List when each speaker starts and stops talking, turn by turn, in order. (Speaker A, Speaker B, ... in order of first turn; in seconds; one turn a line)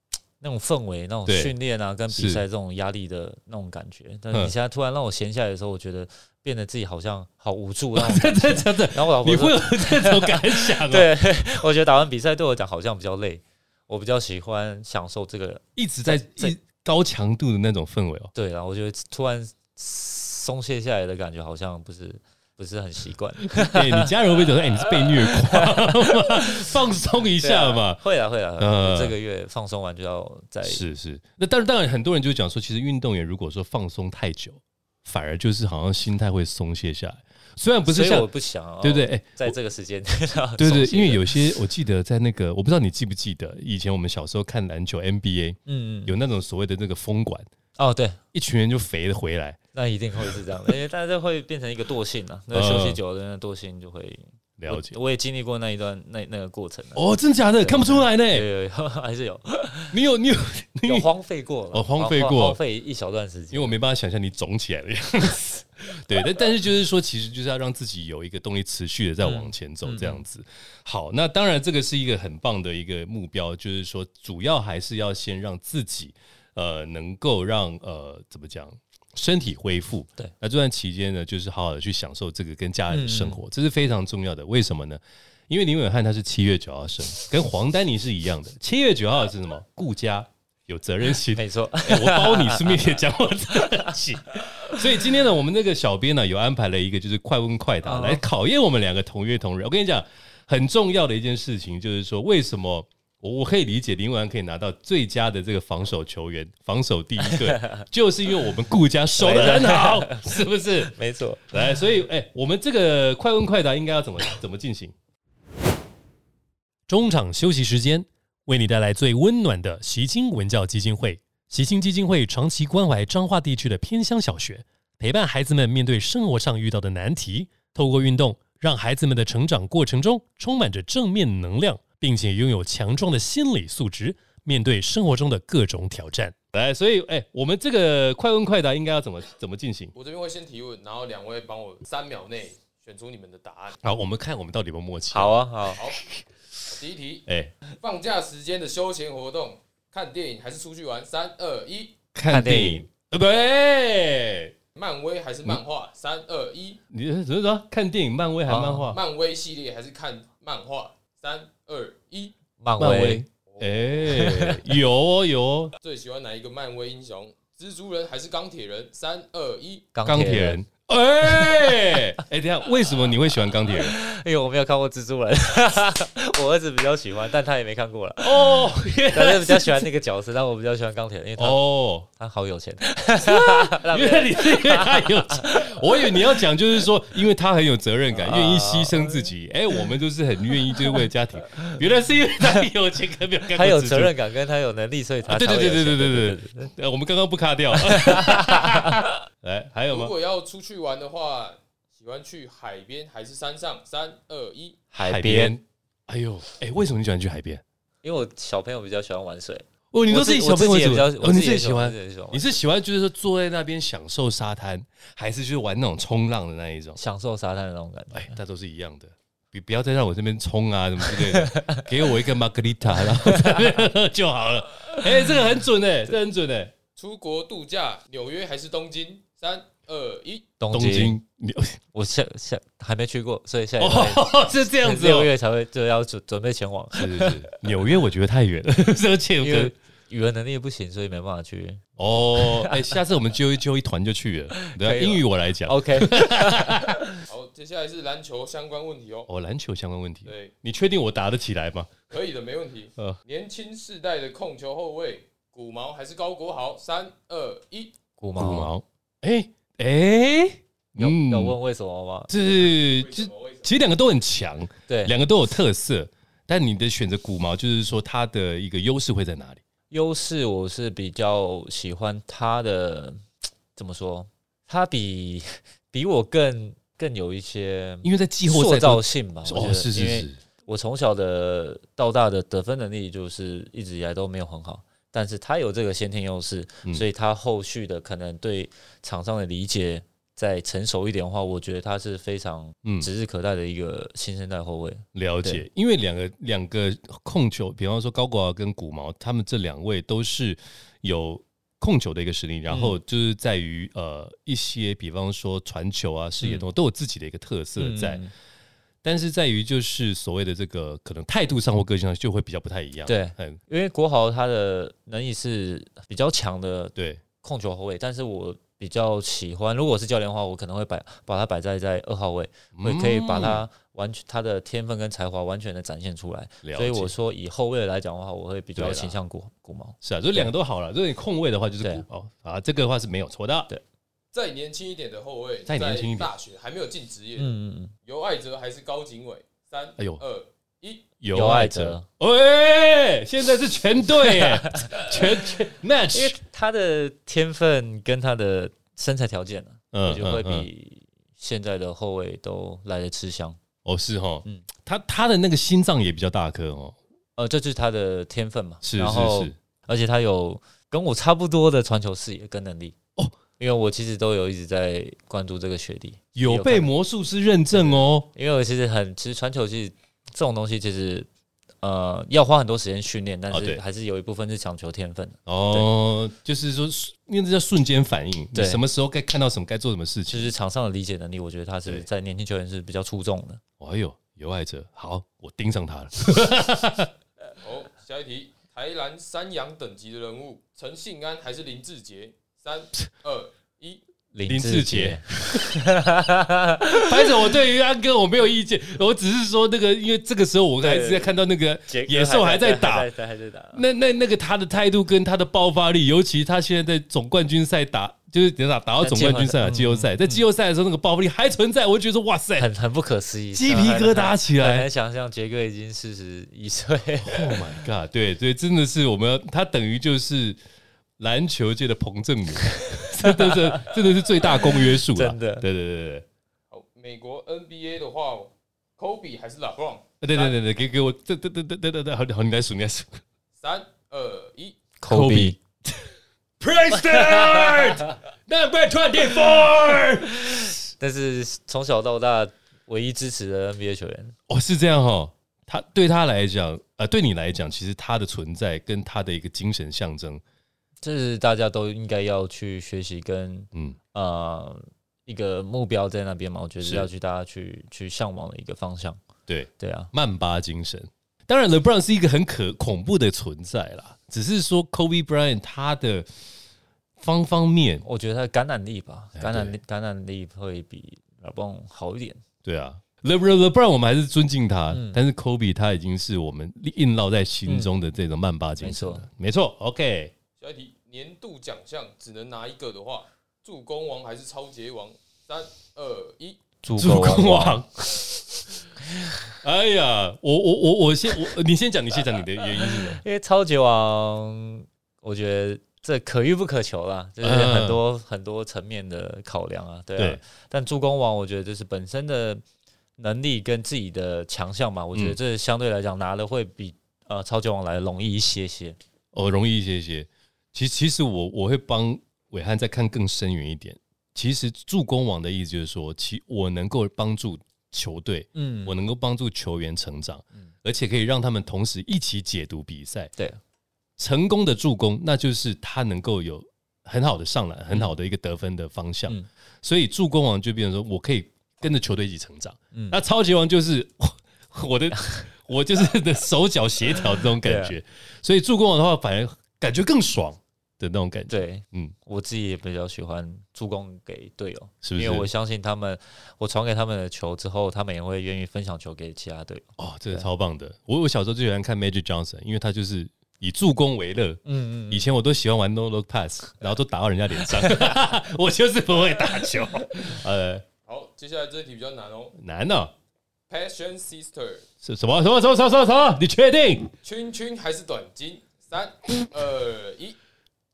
Speaker A: 0.4-16.6
Speaker B: 1.2-1.5
Speaker B: 2.1-2.4
Speaker B: 7.9-11.1
Speaker B: 15.8-18.3
Speaker A: 18.3-24.1
Speaker B: 23.4-28.0
Speaker A: 24.8-26.7
Speaker A: 27.4-30.8
Speaker B: 28.6-29.1
Speaker B: 30.6-38.3
Speaker A: 37.9-41.4
Speaker B: 38.8-39.5
Speaker B: 40.6-47.5
Speaker A: 45.7-46.1
Speaker A: 47.8-48.2
Speaker B: 48.3-49.6
Speaker A: 49.7-57.0
Speaker B: 50.2-50.7
Speaker B: 52.5-53.0
Speaker B: 54.6-55.0
Speaker B: 57.0-58.5
Speaker A: 57.6-59.9
Speaker B: 59.9-61.1
Speaker A: 60.9-63.8
Speaker B: 61.7-62.6
Speaker B: 63.5-111.0
Speaker A: 69.2-70.2
Speaker A: 82.9-83.4
Speaker A: 91.3-93.0
Speaker A: 93.5-93.9
Speaker A: 94.6-95.0
Speaker A: 97.8-98.2
Speaker A: 107.3-107.6
Speaker A: 109.2-111.4
Speaker B: 111.5-114.9
Speaker B: 116.9-139.9
Speaker C: 139.9-143.8
Speaker B: 143.8-145.3
Speaker A: 145.1-145.8
Speaker C: 145.8-146.0
Speaker C: 146.7-151.9
Speaker B: 147.3-147.5
Speaker B: 152.1-154.5
Speaker A: 152.3-152.8
Speaker C: 154.7-156.8
Speaker B: 156.9-159.0
Speaker A: 158.5-158.9
Speaker C: 158.9-162.3
Speaker A: 162.6-163.2
Speaker B: 162.8-165.7
Speaker C: 163.5-164.1
Speaker A: 164.1-164.6
Speaker C: 165.8-169.9
Speaker A: 169.9-170.6
Speaker B: 170.0-173.9
Speaker A: 171.3-172.0
Speaker A: 173.7-186.4
Speaker B: 178.2-179.8
Speaker B: 181.4-182.1
Speaker B: 183.2-194.1
Speaker A: 188.1-189.3
Speaker A: 190.7-191.0
Speaker A: 193.5-196.7
Speaker B: 195.2-200.1
Speaker A: 197.7-199.1
Speaker C: 199.9-204.8
Speaker A: 204.9-205.5
Speaker B: 205.0-207.6
Speaker A: 208.0-212.5
Speaker B: 209.9-217.0
Speaker A: 217.0-218.4
Speaker B: 218.1-226.7
Speaker A: 221.0-221.7
Speaker A: 222.9-223.8
Speaker A: 224.9-225.5
Speaker C: 226.9-230.5
Speaker A: 230.6-231.2
Speaker B: 230.7-231.8
Speaker A: 231.9-237.4
Speaker B: 233.8-235.3
Speaker B: 236.9-239.7
Speaker A: 239.4-243.0
Speaker B: 242.0-247.0
Speaker A: 244.5-247.2
Speaker C: 247.3-249.3
Speaker B: 249.3-251.9
Speaker C: 250.2-250.5
Speaker C: 252.1-257.9
Speaker A: 258.2-258.7
Speaker B: 258.4-261.6
Speaker A: 261.0-262.3
Speaker B: 262.3-269.6
Speaker C: 262.6-263.7
Speaker A: 264.9-265.1
Speaker A: 269.9-273.2
Speaker A: 273.7-295.6
Speaker B: 278.0-280.4
Speaker B: 292.8-293.1
Speaker B: 295.1-308.2
Speaker A: 302.7-302.9
Speaker A: 306.4-306.6
Speaker A: 307.8-308.3
Speaker B: 309.0-313.6
Speaker A: 313.1-330.5
Speaker B: 316.9-317.2
Speaker B: 322.8-323.6
Speaker B: 326.6-327.1
Speaker B: 328.8-329.2
Speaker B: 330.0-333.7
Speaker C: 334.3-337.5
Speaker B: 335.7-336.3
Speaker A: 337.4-337.9
Speaker C: 338.1-341.1
Speaker B: 341.2-346.4
Speaker A: 341.3-342.1
Speaker A: 344.1-345.5
Speaker A: 346.1-353.6
Speaker B: 349.9-350.7
Speaker B: 353.8-357.0
Speaker A: 357.4-363.0
Speaker B: 358.8-359.5
Speaker A: 363.6-366.9
Speaker B: 366.4-368.3
Speaker A: 367.7-371.3
Speaker A: 371.8-375.9
Speaker B: 373.5-373.8
Speaker B: 375.4-380.5
Speaker A: 378.5-378.8
Speaker A: 380.3-383.6
Speaker B: 383.8-387.1
Speaker C: 387.6-394.0
Speaker A: 394.3-397.3
Speaker B: 394.5-395.6
Speaker B: 396.9-403.1
Speaker A: 400.8-403.8
Speaker B: 403.7-412.7
Speaker A: 409.0-410.4
Speaker A: 412.6-417.7
Speaker B: 413.5-414.9
Speaker B: 417.2-420.6
Speaker B: 421.2-426.2
Speaker A: 422.9-425.7
Speaker C: 426.7-430.6
Speaker B: 430.2-433.2
Speaker C: 433.6-434.8
Speaker A: 435.0-435.6
Speaker B: 435.1-436.1
Speaker B: 436.6-440.8
Speaker A: 437.0-438.0
Speaker A: 441.0-444.3
Speaker B: 444.5-450.4
Speaker A: 451.0-459.2
Speaker B: 456.8-457.1
Speaker B: 459.5-466.3
Speaker A: 459.8-460.1
Speaker B: 467.2-468.0
Speaker A: 468.0-472.4
Speaker B: 469.4-469.7
Speaker B: 472.6-480.3
Speaker A: 474.9-475.2
Speaker A: 477.6-477.9
Speaker A: 478.8-479.2
Speaker C: 480.6-486.6
Speaker A: 486.8-487.8
Speaker B: 487.0-488.3
Speaker B: 489.6-493.2
Speaker A: 492.8-502.6
Speaker B: 497.4-498.0
Speaker A: 503.2-509.0
Speaker B: 509.3-523.3
Speaker A: 518.5-519.0
Speaker B: 524.2-542.1
Speaker A: 537.4-538.0
Speaker A: 541.5-550.5
Speaker B: 545.0-545.5
Speaker B: 550.0-560.8
Speaker A: 554.6-555.3
Speaker A: 557.7-558.2
Speaker C: 561.1-562.5
Speaker B: 562.5-563.1
Speaker C: 563.7-564.8
Speaker B: 565.0-567.1
Speaker C: 567.2-570.4